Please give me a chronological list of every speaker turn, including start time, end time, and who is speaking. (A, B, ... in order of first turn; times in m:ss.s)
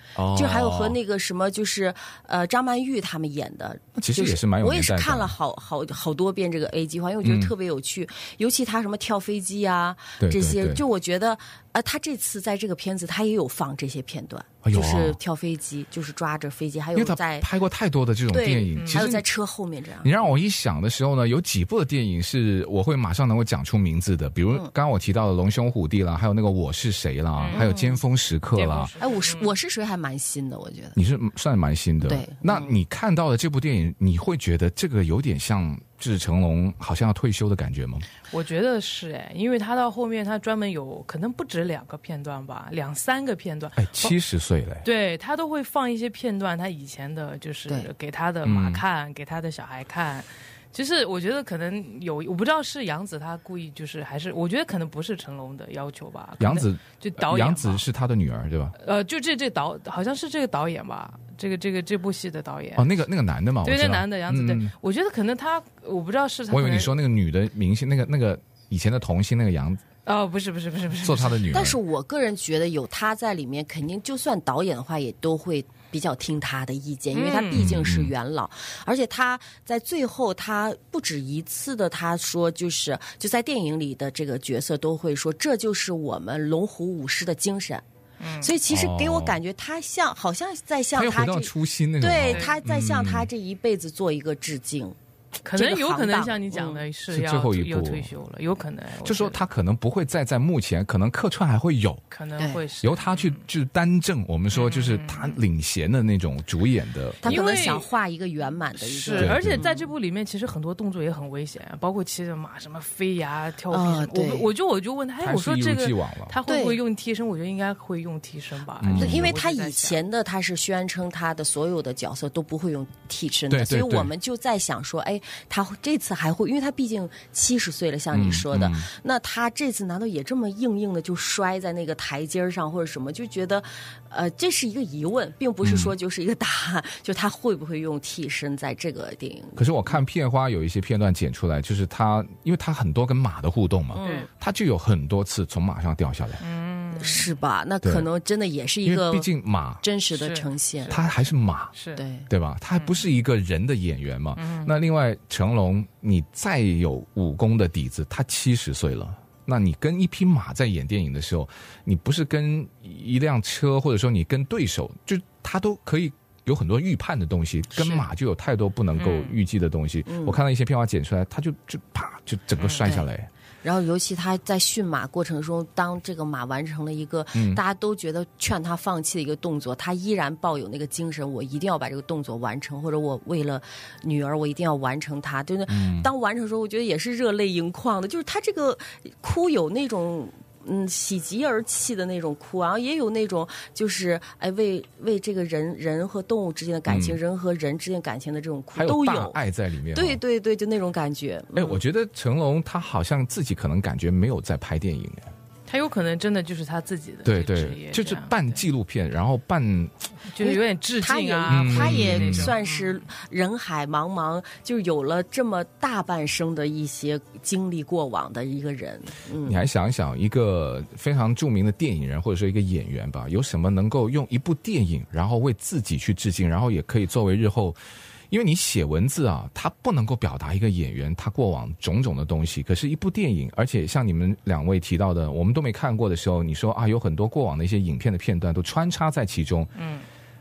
0:00.2-0:01.0 A
0:00.3-0:17.5 B
0:04.0-0:05.4 A
0:07.2-0:07.5 A
0:10.2-0:10.8 A
0:14.6-0:15.2 A
0:17.0-0:19.2 A
0:18.3-0:20.3 B
0:18.7-0:19.1 C
0:20.0-0:28.9 A
0:27.4-0:27.7 C
0:27.5-0:28.0 B
0:28.6-0:29.5 C
0:29.0-0:31.0 B
0:31.0-0:38.1 A
0:32.0-0:32.8 B
0:38.3-0:44.2 C
0:43.8-0:44.8 A
0:44.8-0:57.8 C
0:48.4-0:48.8 A
0:56.4-0:58.8 A
0:58.8-1:02.9 C
1:02.8-1:04.7 A
1:03.6-1:07.0 C
1:06.5-1:09.8 A
1:10.0-1:11.5 C
1:11.0-1:11.8 A
1:11.5-1:27.8 B
1:17.1-1:17.7 C
1:17.5-1:18.1 A
1:28.2-1:28.6 C
1:28.4-1:36.8 B
1:28.7-1:29.4 A
1:31.0-1:33.3 A
1:32.3-1:32.6 C
1:35.5-1:39.4 C
1:37.1-1:38.1 A
1:39.0-1:42.0 A
1:42.1-1:43.4 C
1:42.8-1:47.4 A
1:44.5-1:45.4 C
1:47.2-1:47.9 C
1:47.2-1:49.9 B
1:48.8-2:00.0 C
1:49.2-1:49.7 A
1:53.7-1:54.5 B
1:55.2-1:56.4 A
1:56.5-1:56.8 B
1:58.8-1:59.4 A
1:59.0-2:19.9 B
2:03.5-2:04.1 A
2:08.1-2:08.9 A
2:15.6-2:16.0 A
2:19.6-2:26.4 A
2:24.0-2:24.3 C
2:24.0-2:24.3 B
2:26.4-2:27.4 C
2:27.0-2:31.0 B
2:28.8-2:29.8 A
2:30.1-2:31.1 C
2:30.9-2:31.7 A
2:31.7-2:32.0 C
2:32.0-2:32.3 B
2:32.3-2:53.3 A
2:32.8-2:33.0 C
2:34.4-2:34.7 C
2:47.7-2:48.1 B
2:49.0-2:49.4 C
2:50.1-2:50.4 B
2:52.6-2:52.9 C
2:53.6-3:19.4 B
2:57.3-2:57.6 A
3:05.7-3:06.1 A
3:16.9-3:17.2 A
3:18.8-3:20.2 A
3:19.9-3:21.8 B
3:21.6-3:25.3 A
3:25.7-3:28.6 C
3:27.3-3:30.1 A
3:30.3-3:33.1 C
3:30.4-3:39.6 B
3:31.5-3:32.5 A
3:39.4-3:47.8 A
3:48.3-3:59.7 A
3:59.8-4:00.1 C